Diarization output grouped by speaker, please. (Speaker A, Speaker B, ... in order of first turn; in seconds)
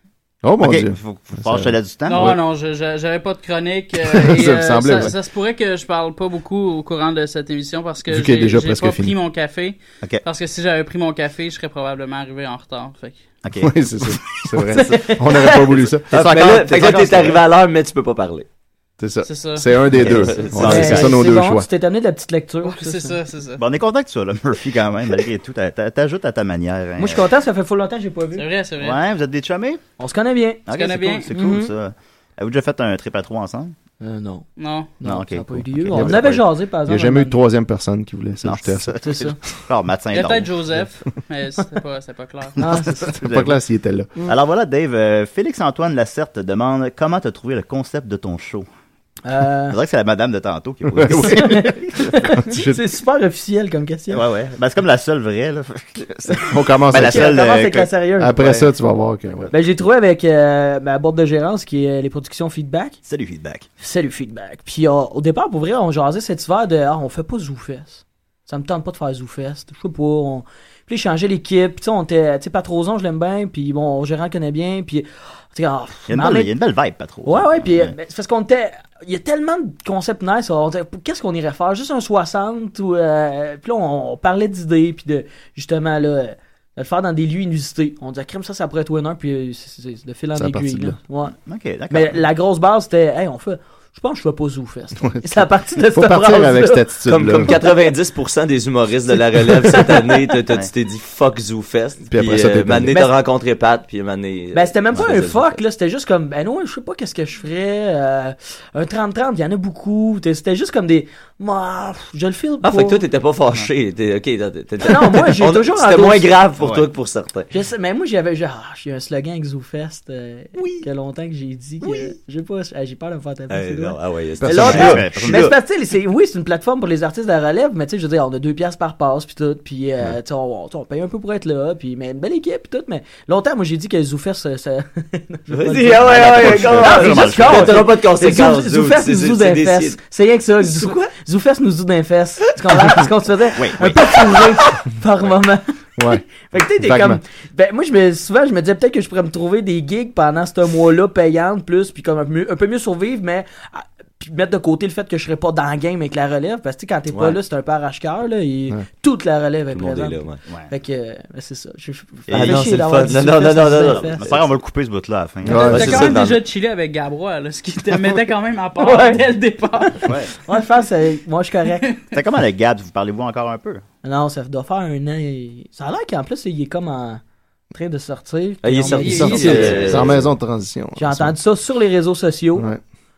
Speaker A: 0.4-2.4, 4.0-5.1, 8.1-9.2, 13.6-16.1, 19.0-21.7, 35.9-39.3, 43.1-44.1, 50.9-51.6, 52.2-52.8, 56.5-57.4, 58.2-59.5, 90.3-91.0, 95.0-97.6, 102.1-103.0, 124.4-124.9, 146.0-147.2, 165.4-166.1, 179.0-181.3
Speaker B: 0.6-2.4, 13.4-14.4, 16.1-17.4, 19.9-21.1, 23.6-27.2, 28.8-29.8, 30.7-33.7, 35.0-36.4, 38.4-40.8, 42.6-43.6, 44.2-48.7, 49.7-52.2, 54.1-58.7, 63.0-63.7, 76.1-77.9, 91.5-92.2, 116.6-116.8, 120.5-120.8, 124.6-125.5, 135.9-137.9, 143.5-144.4, 162.3-163.1, 163.8-166.1, 170.0-170.3, 172.1-173.8
Speaker C: 2.1-13.2, 19.2-20.5, 22.6-23.6, 28.4-29.0, 30.7-31.3, 34.6-35.0, 40.1-42.6, 165.5-170.3, 179.0-180.0
Speaker D: 14.7-15.6, 20.6-23.2, 27.0-28.5, 30.0-30.7, 31.3-31.7, 34.0-37.4, 39.0-39.4, 42.6-43.1, 49.2-49.8, 51.1-54.2, 57.0-58.6, 59.5-63.0, 63.8-76.5, 77.2-91.3, 91.9-96.8, 99.7-100.1, 104.5-113.0, 114.8-116.3, 117.5-164.2, 168.8-171.9, 174.0-177.2, 177.7-180.2, 181.0-182.7
Speaker E: 16.1-18.4, 20.1-20.6, 97.1-105.6, 112.6-117.5, 123.5-125.5, 135.5-140.0, 140.6-141.0, 157.1-157.4, 159.7-160.4, 162.3-164.4, 165.7-166.4, 178.6-180.1